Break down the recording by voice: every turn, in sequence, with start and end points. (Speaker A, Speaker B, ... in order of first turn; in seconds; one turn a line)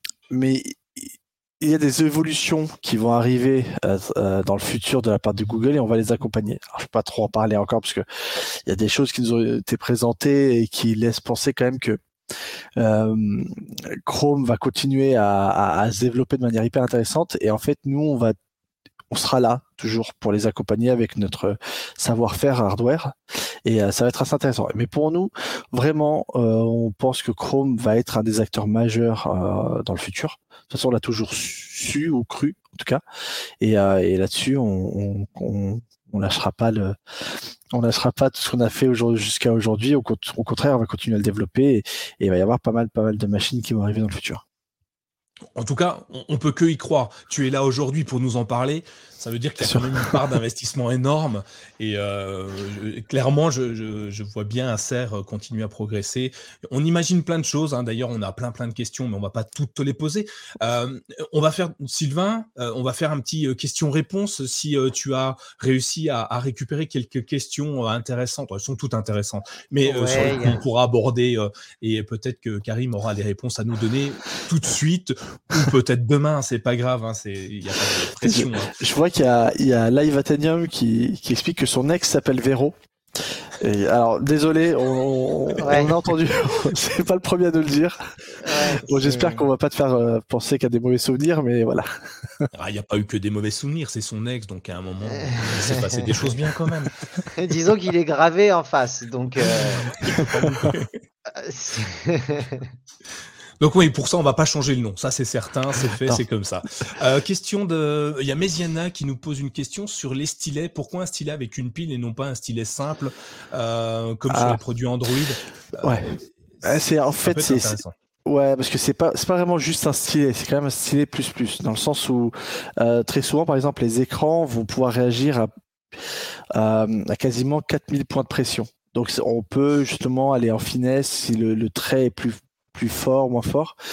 Speaker A: 0.3-12.0
Speaker A: 12.8-18.4
Speaker A: 19.1-33.0
Speaker A: 33.6-37.0
Speaker A: 37.7-44.4
Speaker B: 45.5-78.8
Speaker A: 49.6-50.1
Speaker C: 69.8-70.6
Speaker A: 78.2-82.7
Speaker A: 83.6-92.5
Speaker C: 85.6-86.0
Speaker C: 88.4-89.5
Speaker B: 92.5-97.0
Speaker C: 95.1-96.1
Speaker C: 97.3-99.9
Speaker B: 99.5-101.0
Speaker A: 100.2-100.7
Speaker C: 101.3-102.7
Speaker B: 103.6-117.9
Speaker A: 114.3-114.6
Speaker A: 115.8-125.5
Speaker A: 126.0-133.8